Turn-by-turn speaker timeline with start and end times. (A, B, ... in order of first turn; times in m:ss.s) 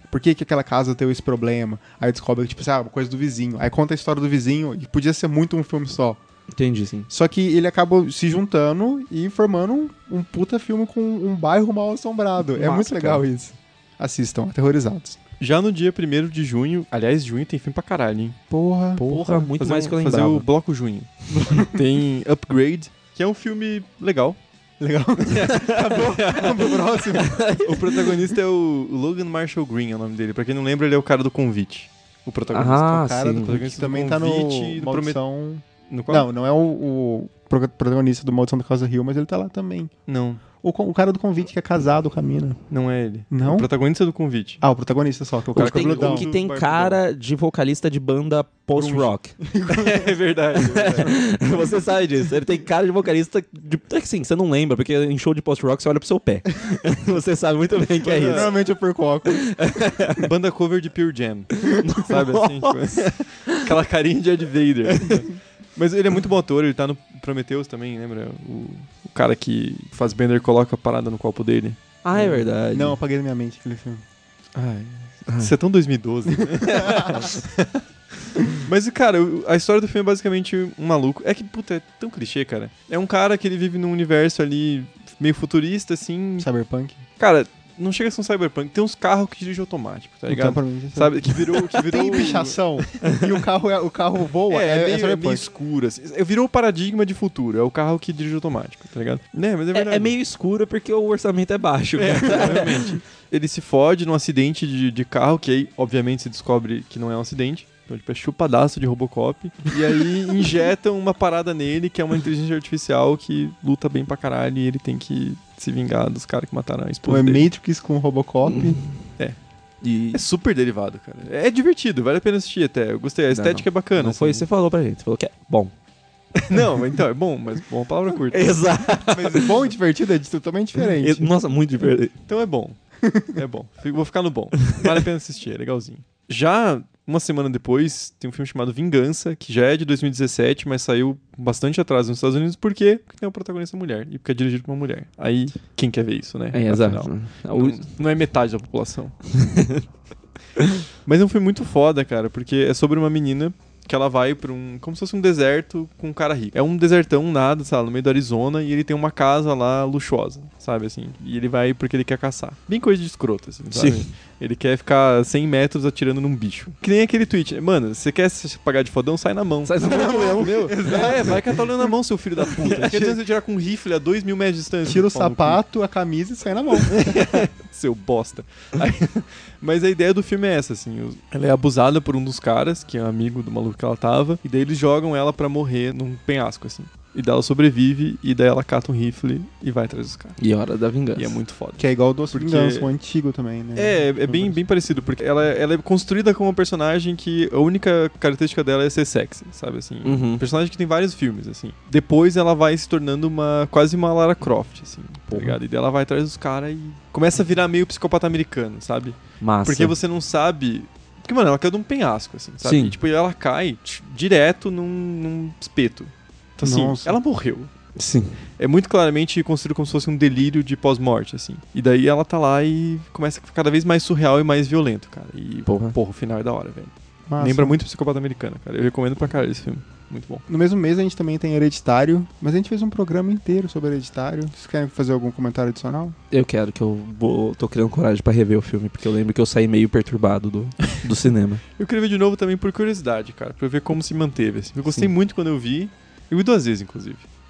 0:00.1-0:06.2 A
0:06.5-0:07.1 B
0:07.1-0:15.2 A
0:12.4-0:13.2 B
0:15.4-0:18.4 C
0:18.5-0:19.5 A
0:19.0-0:20.5 B
0:19.6-0:24.4 C
0:21.4-0:21.8 A
0:24.8-0:27.4 A
0:25.3-0:26.8 C
0:25.5-0:25.8 B
0:27.2-0:28.1 B
0:27.6-0:35.2 C
0:32.5-0:33.5 B
0:32.9-0:39.9 A
0:35.9-0:36.3 C
0:40.1-0:40.4 C
0:40.6-0:42.6 A
0:42.7-0:44.6 C
0:43.3-0:43.7 A
0:44.6-0:46.3 A
0:45.6-0:47.0 C
0:45.6-0:49.3 B
0:48.8-0:50.2 A
0:49.7-0:51.4 C
0:50.6-0:58.5 B
0:58.0-0:58.6 C
0:58.2-0:59.6 A
0:59.3-1:00.3 B
1:00.2-1:12.4 C
1:01.7-1:03.7 B
1:12.0-1:13.0 B
1:12.7-1:14.0 A
1:14.6-1:17.8 C
1:16.4-1:17.1 A
1:18.6-1:26.5 C
1:26.4-1:27.0 A
1:27.2-1:33.0 C
1:30.3-1:35.5 A
1:34.5-1:40.2 C
1:39.7-1:42.9 B
1:42.0-1:57.4 C
1:57.1-1:58.8 A
1:58.5-1:58.8 B
1:59.8-2:00.2 B
2:00.1-2:04.5 C
2:03.3-2:05.7 B
2:06.4-2:06.6 B
2:06.5-2:09.6 C
2:08.3-2:09.5 B
2:09.1-2:11.3 A
2:11.0-2:12.1 B
2:12.1-2:12.8 C
2:13.0-2:13.4 A
2:13.3-2:29.2 C
2:26.5-2:27.9 B
2:29.3-2:29.8 B
2:31.0-2:55.6 C
2:43.7-2:44.1 B
2:49.6-2:51.1 B
2:49.8-2:51.6 A
2:52.7-2:53.2 A
2:54.8-2:57.5 A
2:56.9-3:10.4 C
3:10.4-3:11.4 B
3:11.2-3:12.9 C
3:11.8-3:14.6 A
3:13.8-3:37.7 C
3:20.0-3:20.4 B
3:25.3-3:25.6 B
3:29.4-3:30.0 B
3:32.6-3:33.0 B
3:36.6-3:37.2 A
3:38.0-3:38.4 B
3:38.6-3:50.4 C
3:45.7-3:46.0 B
3:47.3-3:47.8 A
3:50.5-3:56.2 A
3:56.3-4:01.6 B
4:01.8-4:07.3 C
4:04.9-4:05.1 B